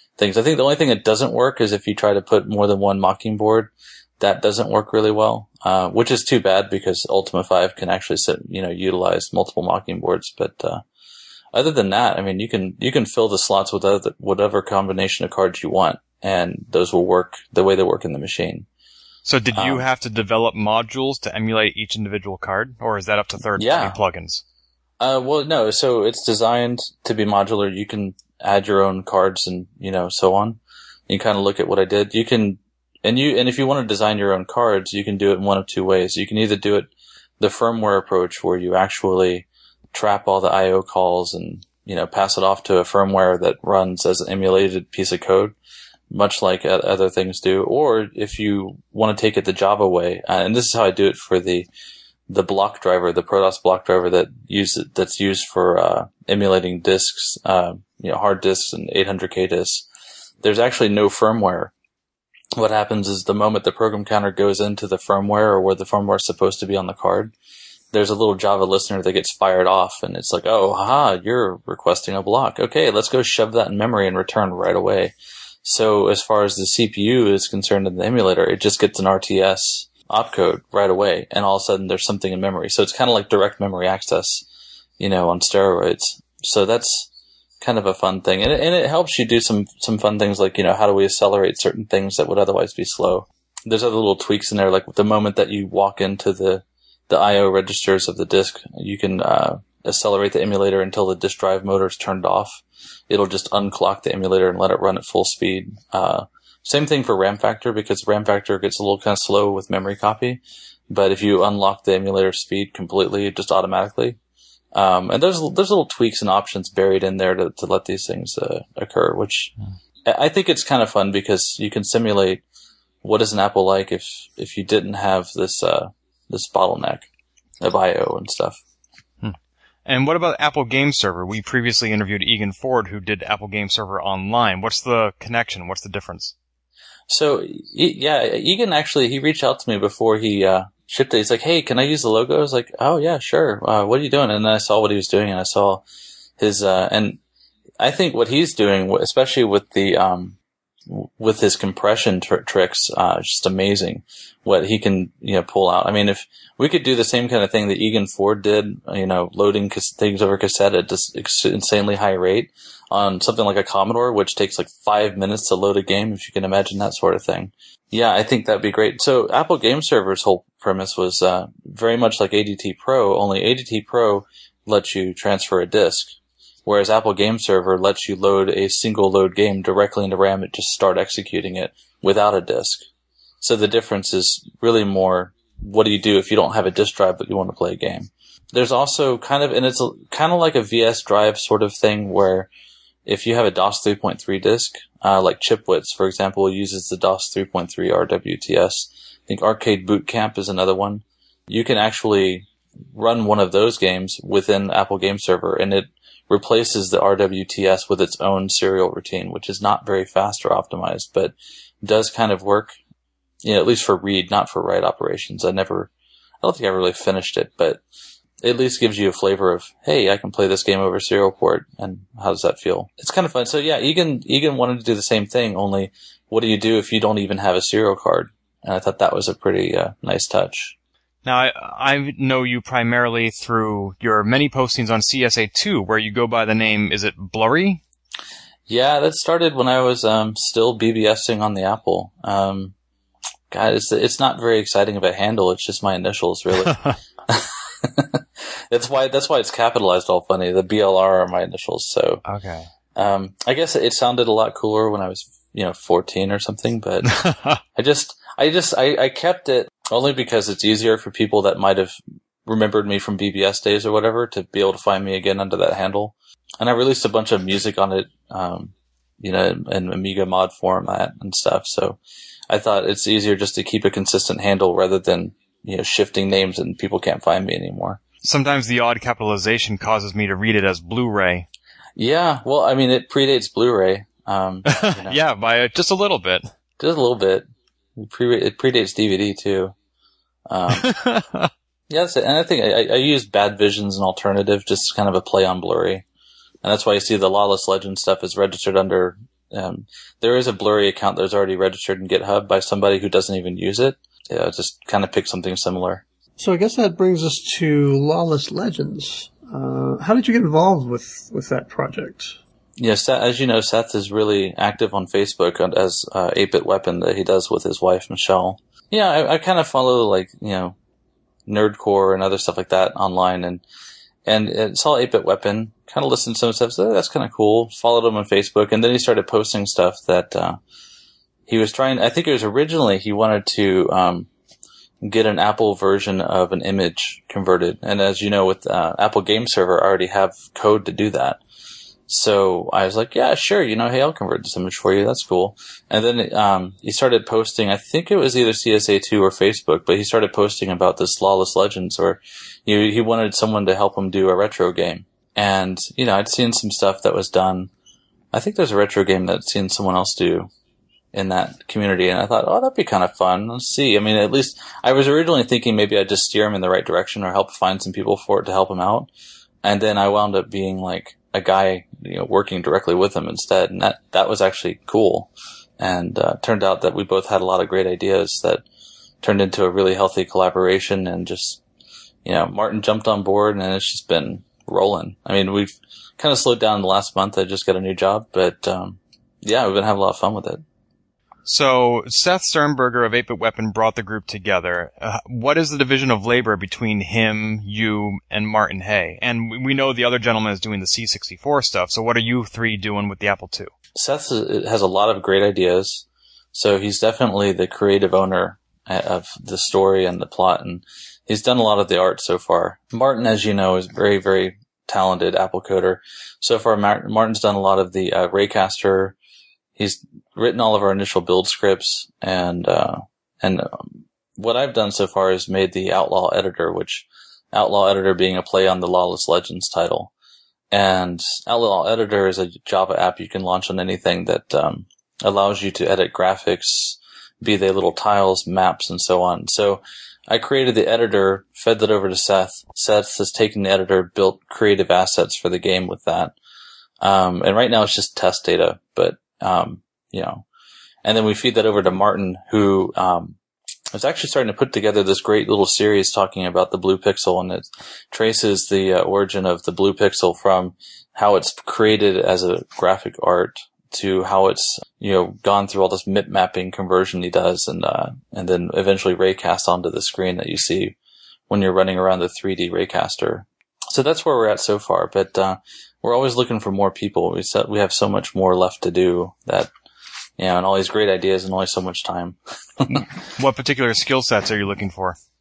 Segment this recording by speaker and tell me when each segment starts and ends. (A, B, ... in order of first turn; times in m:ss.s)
0:00.2-0:10.8 A
0:11.5-0:18.6 A
0:19.2-0:24.4 B
0:19.5-0:19.8 A
0:23.6-0:24.0 A
0:25.0-0:45.6 A
0:46.1-0:51.7 A
0:52.3-0:59.8 A
1:00.4-1:01.7 A
1:02.6-1:07.3 A
1:07.9-1:24.4 A
1:25.0-1:27.1 A
1:27.6-1:54.2 A
1:54.7-1:59.5 A
2:00.0-2:02.4 A
2:03.0-2:07.1 A
2:07.6-2:08.6 A
2:09.2-2:16.3 B
2:17.1-2:25.8 A
2:26.4-2:27.2 A
2:27.8-2:30.4 A
2:30.9-3:02.9 A
3:03.4-3:12.5 A
3:13.0-3:32.8 A
3:33.4-3:35.9 A
3:36.4-3:37.8 A
3:38.4-3:50.7 A
3:51.2-3:57.8 B
3:58.7-4:02.7 A
4:03.5-4:12.2 A
4:06.7-4:07.0 B
4:12.2-4:12.7 B
4:13.0-4:17.2 A
4:17.1-4:17.6 B
4:17.7-4:32.0 A
4:32.5-4:38.0 A
4:38.2-4:41.5 B
4:42.0-4:45.2 A
4:44.7-4:46.4 B
4:46.8-4:49.7 A
4:50.5-4:51.0 A
4:50.8-4:51.5 B
4:51.9-4:56.0 A
4:56.6-5:06.0 A
5:06.4-5:12.4 C
5:12.8-5:20.7 A
5:21.5-5:23.6 A
5:24.2-5:30.6 A
5:31.5-5:34.3 A
5:35.0-5:41.4 A
5:42.1-5:57.7 A
5:58.3-6:00.5 A
6:01.1-6:09.1 A
6:09.6-6:18.6 A
6:19.2-6:21.6 A
6:22.2-6:30.6 A
6:31.4-6:43.7 B
6:43.9-6:59.2 A
6:59.8-7:10.1 A
7:10.7-7:26.3 A
7:27.0-7:30.4 A
7:31.0-7:33.4 A
7:33.9-7:50.9 A
7:51.5-7:59.7 A
8:00.4-8:03.1 A
8:03.4-8:05.2 B